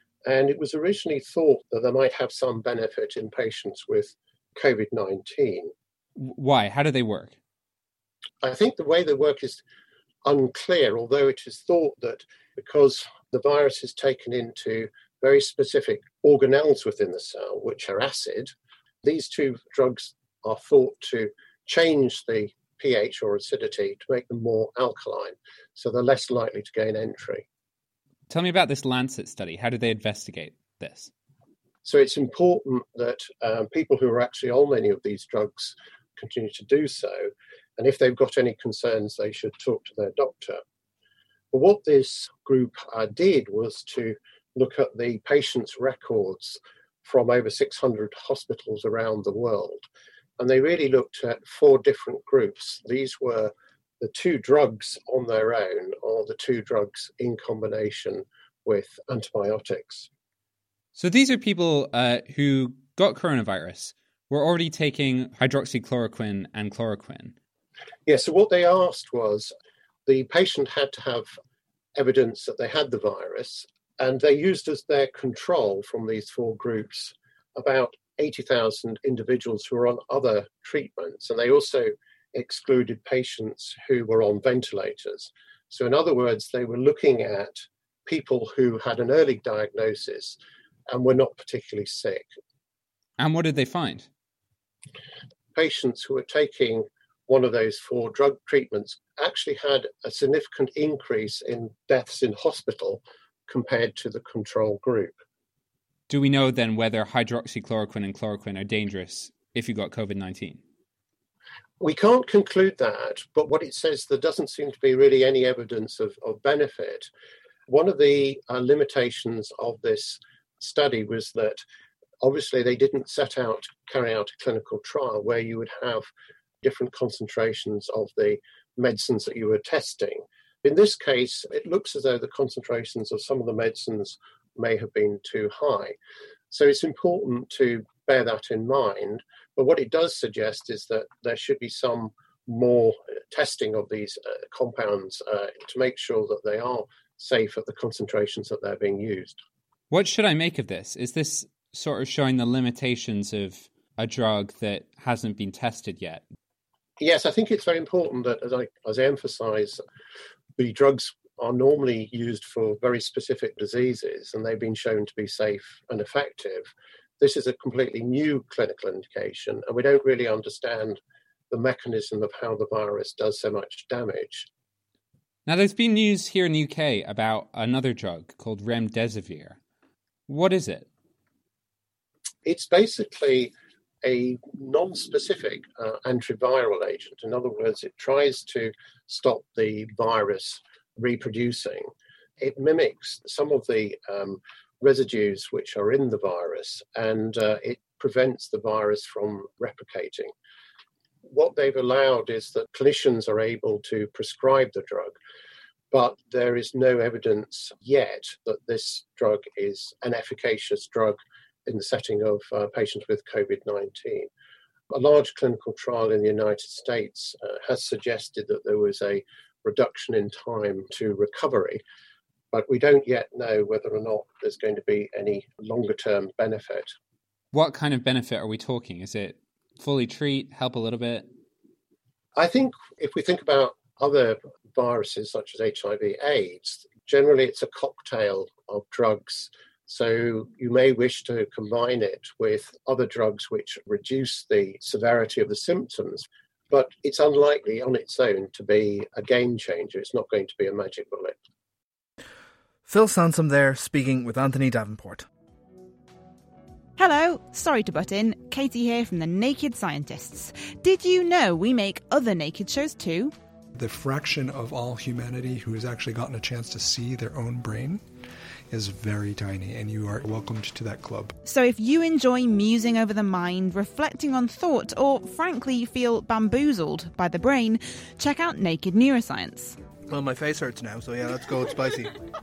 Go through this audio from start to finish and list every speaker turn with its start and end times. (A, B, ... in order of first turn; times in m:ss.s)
0:00.3-0:05.7 A
0:06.2-0:07.3 B
0:08.4-0:09.6 A
0:10.2-0:18.5 A
0:19.0-0:27.4 A
0:28.3-0:31.1 B
0:31.8-0:40.6 A
0:41.5-0:49.8 A
0:50.4-1:00.1 A
1:00.9-1:07.3 B
1:08.1-1:09.5 A
1:10.1-1:11.3 A
1:12.0-1:30.4 A
1:30.9-1:32.3 A
1:33.2-1:34.1 B
1:35.5-1:45.2 A
1:46.1-1:50.6 B
1:51.8-1:57.1 A
1:57.7-2:01.6 A
2:02.2-2:06.1 A
2:06.6-2:16.0 A
2:16.5-2:29.4 A
2:29.9-2:36.2 B
2:37.0-2:39.8 A
2:40.6-2:51.0 A
2:51.5-2:54.5 A
2:55.4-2:59.6 B
3:00.3-3:00.8 B
3:02.4-3:03.5 A
3:04.0-3:11.9 A
3:12.4-3:20.3 A
3:21.2-3:25.2 A
3:25.9-3:34.3 A
3:34.9-3:41.8 A
3:42.5-3:46.9 A
3:47.5-3:51.2 B
3:52.4-4:11.4 A
4:12.9-4:15.2 C
4:17.0-4:23.3 D
4:23.8-4:28.0 E
4:28.7-4:31.3 E
4:31.4-4:39.8 D
4:40.1-4:42.1 C